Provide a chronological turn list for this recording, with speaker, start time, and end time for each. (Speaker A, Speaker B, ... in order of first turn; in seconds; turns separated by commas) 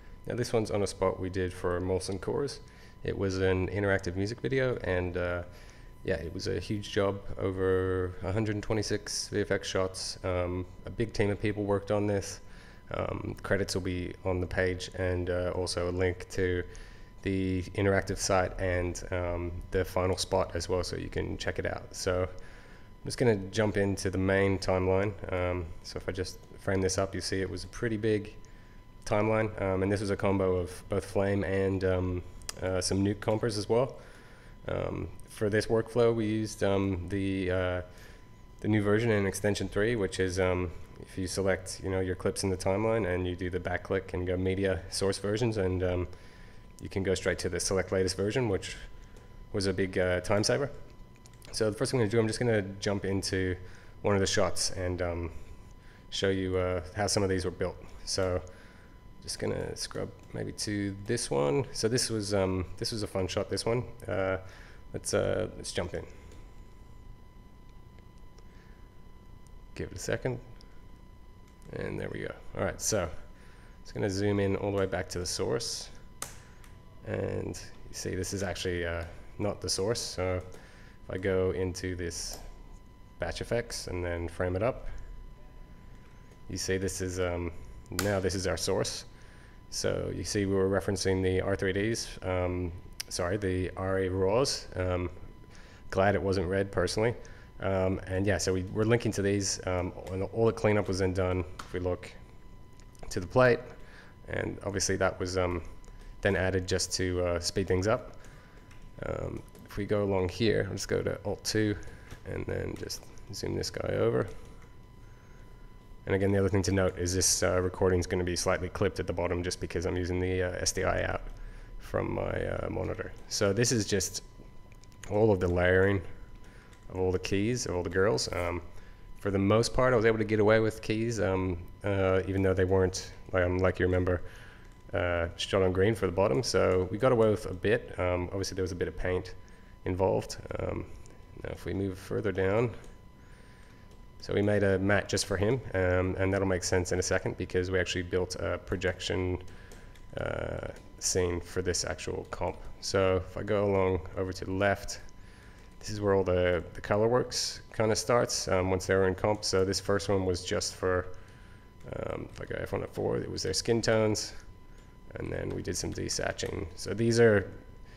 Speaker A: 0.2-16.7, Speaker A: 17.2-22.3, Speaker A: 22.9-28.4, Speaker A: 29.0-38.0, Speaker A: 38.6-46.1, Speaker A: 46.8-50.7, Speaker A: 51.5-66.1, Speaker A: 69.7-71.0, Speaker A: 71.7-76.1, Speaker A: 77.0-82.5, Speaker A: 83.2-85.0, Speaker A: 86.5-95.2, Speaker A: 95.8-102.2, Speaker A: 103.0-114.3, Speaker A: 116.0-124.3, Speaker A: 125.1-126.1, Speaker A: 126.8-134.3, Speaker A: 134.8-142.9, Speaker A: 144.2-149.4, Speaker A: 150.1-164.6, Speaker A: 165.1-167.8